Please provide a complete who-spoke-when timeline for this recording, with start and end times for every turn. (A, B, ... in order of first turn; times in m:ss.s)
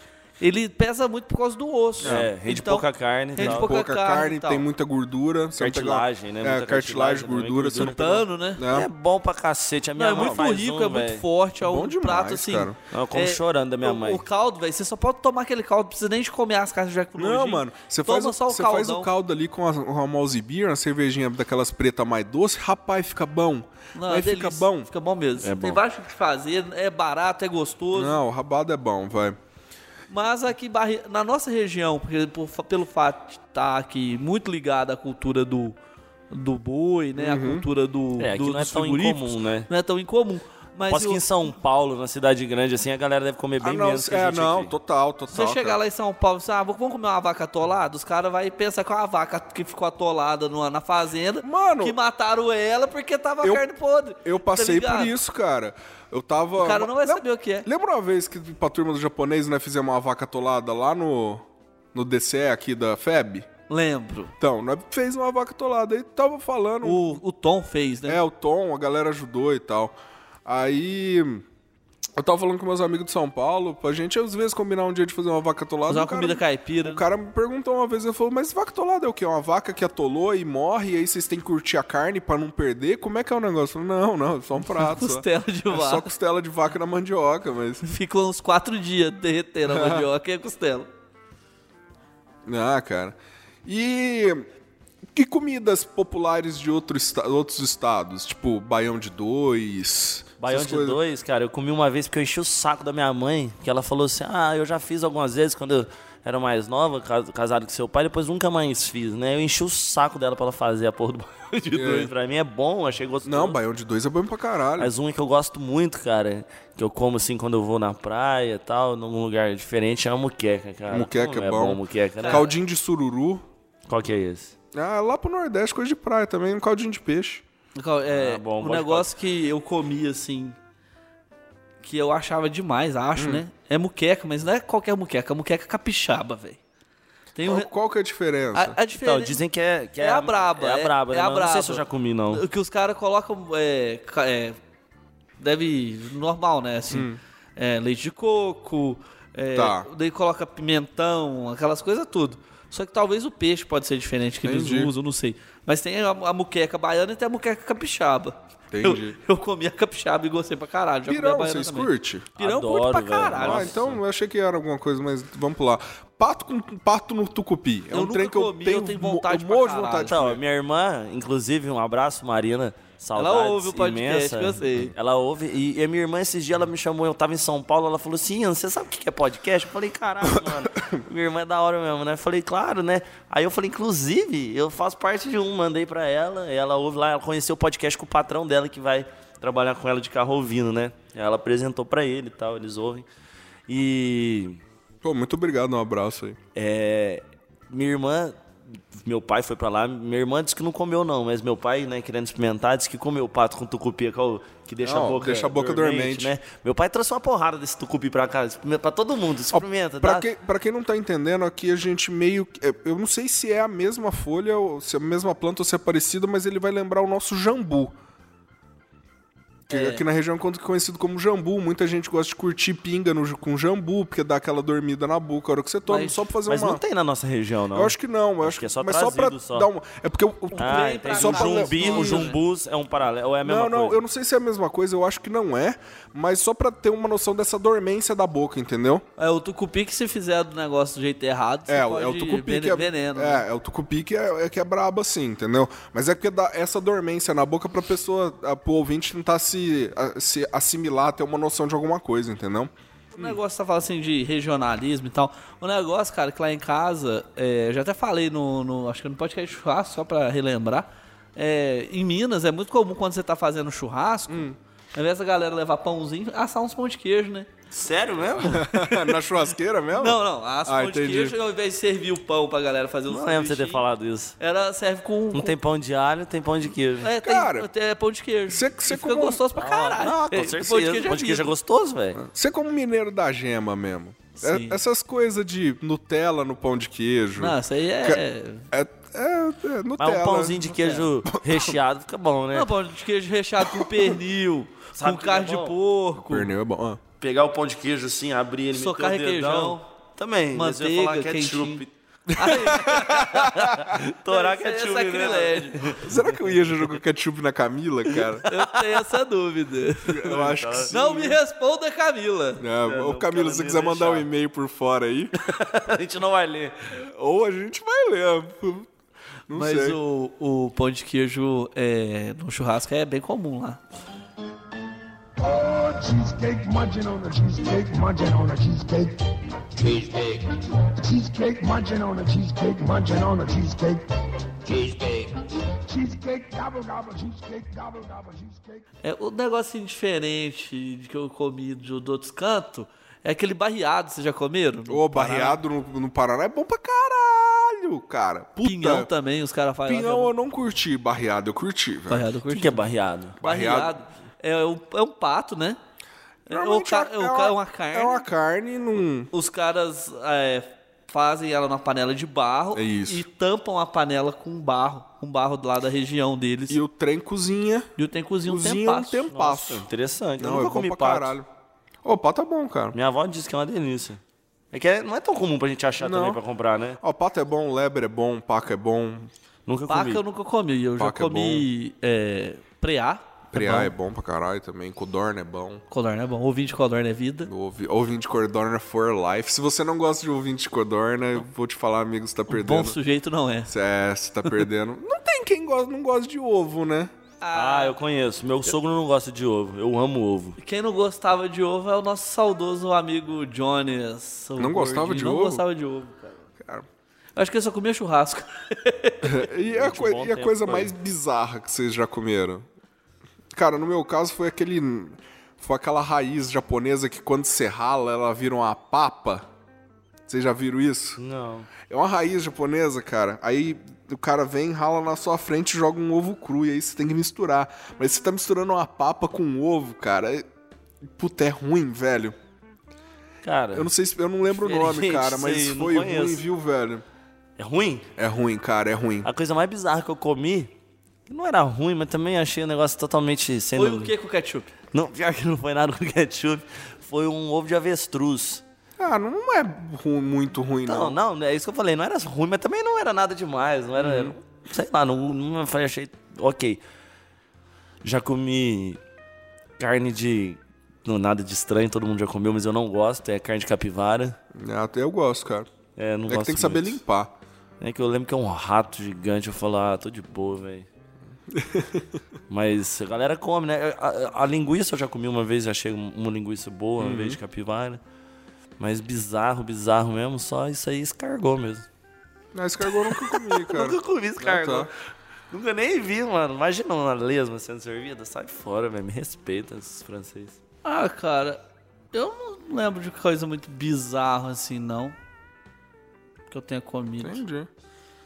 0:00.4-0:04.6 A
0:02.0-0:02.3 B
0:02.0-0:03.7 C
0:03.4-0:08.9 B
0:05.6-0:11.2 C
0:07.8-0:08.6 A
0:10.0-0:19.1 A
0:10.1-0:10.4 B
0:11.6-0:12.8 B
0:12.9-0:14.2 C
0:17.2-0:24.9 B
0:24.0-0:28.2 A
0:25.4-0:25.8 C
0:27.9-0:29.4 B
0:30.1-0:35.8 A
0:36.3-0:41.5 A
0:37.2-0:37.7 B
0:38.2-0:39.7 C
0:40.9-0:44.7 C
0:43.6-0:45.8 B
0:45.3-0:55.2 A
0:51.4-0:52.0 B
0:54.2-1:03.5 B
0:56.6-0:57.7 A
1:03.7-1:04.3 A
1:04.4-1:07.2 B
1:06.8-1:08.2 A
1:08.1-1:11.4 B
1:12.2-1:27.8 B
1:15.9-1:17.0 A
1:24.7-1:26.1 A
1:27.8-1:30.9 A
1:29.7-1:30.1 B
1:32.5-1:34.5 B
1:35.1-1:41.0 B
1:40.4-1:53.6 C
1:51.7-1:52.1 B
1:53.2-1:54.9 B
1:54.8-2:02.4 C
2:00.9-2:03.5 B
2:02.2-2:02.5 A
2:03.9-2:04.6 C
2:04.7-2:07.4 B
2:07.8-2:10.6 A
2:08.1-2:09.1 C
2:11.8-2:16.6 A
2:13.2-2:13.4 B
2:17.4-2:17.7 A
2:17.4-2:18.8 B
2:18.5-2:19.4 A
2:18.9-2:22.4 C
2:20.0-2:24.6 A
2:25.4-2:43.7 A
2:26.9-2:27.2 B
2:29.5-2:29.9 B
2:34.4-2:34.9 B
2:38.7-2:39.2 B
2:41.1-2:42.3 B
2:42.4-2:44.0 C
2:43.3-2:50.4 B
2:47.9-2:50.1 A
2:50.1-3:13.1 C
2:53.2-2:54.9 A
3:00.2-3:01.0 B
3:13.7-3:14.6 C
3:15.0-3:16.4 B
3:16.6-3:18.4 C
3:19.0-3:30.3 C
3:24.8-3:26.3 B
3:29.5-3:38.0 B
3:39.7-3:46.8 B
3:39.7-3:40.0 A
3:45.9-3:46.2 A
3:46.5-3:49.7 C
3:47.7-3:52.3 B
3:50.6-3:52.4 A
3:50.6-3:54.0 C
3:53.4-3:59.1 B
3:59.2-4:03.4 A
4:01.7-4:13.4 B
4:13.2-4:27.5 A
4:24.3-4:24.6 B
4:27.7-4:28.7 C
4:28.4-4:31.4 B
4:28.8-4:29.2 A
4:29.9-4:33.8 A
4:33.1-4:34.4 C
4:34.4-4:35.6 A
4:35.3-4:37.1 C
4:37.0-4:41.5 A
4:37.2-4:37.7 B
4:38.5-4:39.4 B
4:39.6-4:42.2 C
4:42.2-4:50.6 B
4:44.4-4:44.8 A
4:47.4-4:48.7 A
4:50.0-4:52.7 C
4:50.7-4:51.1 A
4:51.3-4:51.8 B
4:52.5-4:56.5 A
4:53.6-4:54.2 B
4:55.0-4:55.7 C
4:56.2-4:57.0 B
4:57.2-5:01.9 C
4:58.7-4:59.9 A
5:00.5-5:03.5 A
5:02.3-5:03.8 B
5:03.1-5:06.8 C
5:04.2-5:06.0 A
5:06.0-5:08.5 B
5:08.4-5:08.8 C
5:08.5-5:10.4 A
5:10.0-5:11.4 B
5:10.3-5:10.9 C
5:10.9-5:12.6 A
5:12.6-5:15.3 B
5:12.8-5:14.3 C
5:15.4-5:16.7 C
5:16.9-5:18.9 B
5:19.5-5:20.0 B
5:19.5-5:23.8 A
5:25.4-5:34.1 D
5:34.6-5:38.8 D
5:39.0-5:45.6 A
5:44.9-5:49.1 B
5:48.6-5:50.3 A
5:49.9-5:52.3 B
5:52.1-5:52.8 A
5:52.5-5:53.4 C
5:53.4-5:54.0 B
5:53.4-5:55.8 A
5:56.5-5:58.2 A
5:56.5-5:59.3 B
5:59.3-6:06.8 A
6:02.8-6:03.2 B
6:06.7-6:07.9 B
6:08.0-6:09.3 A
6:08.4-6:09.9 B
6:09.3-6:11.4 C
6:10.4-6:11.5 B
6:12.0-6:13.0 B
6:12.9-6:14.2 C
6:14.7-6:17.0 C
6:16.0-6:16.4 B
6:17.0-6:19.3 B
6:19.7-6:20.2 C
6:19.9-6:23.9 A
6:21.0-6:21.7 B
6:23.5-6:25.8 B
6:25.9-6:27.5 A
6:27.4-6:33.0 B
6:32.5-6:33.7 A
6:33.7-6:37.1 B
6:37.4-6:38.0 A
6:37.5-6:40.6 C
6:40.6-6:46.4 A
6:44.6-6:45.6 B
6:47.4-6:49.4 A
6:49.2-6:52.7 B
6:49.7-6:50.9 C
6:53.5-6:59.5 B
7:00.3-7:01.2 B
7:01.2-7:01.7 C
7:01.9-7:10.5 B
7:11.2-7:12.4 B
7:13.4-7:13.9 C
7:13.7-7:17.0 B
7:14.4-7:16.4 C
7:17.6-7:18.1 C
7:18.2-7:19.3 B
7:19.2-7:20.7 C
7:21.3-7:24.1 C
7:23.8-7:24.7 A
7:24.9-7:28.6 C
7:29.0-7:31.2 B
7:30.8-7:36.8 C
7:34.0-7:34.4 B
7:38.0-7:39.0 C
7:39.8-7:44.4 C
7:44.5-7:45.7 B
7:46.0-7:47.0 C
7:46.3-7:47.4 B
7:47.8-7:50.9 C
7:51.5-7:52.2 B
7:52.5-7:58.0 C
7:57.0-7:57.4 B
7:58.8-8:01.9 C
8:02.5-8:04.9 B
8:03.0-8:04.9 C
8:05.5-8:10.6 C
8:10.8-8:11.6 A
8:12.1-8:15.2 A
8:16.5-8:17.4 A
8:17.2-8:17.7 B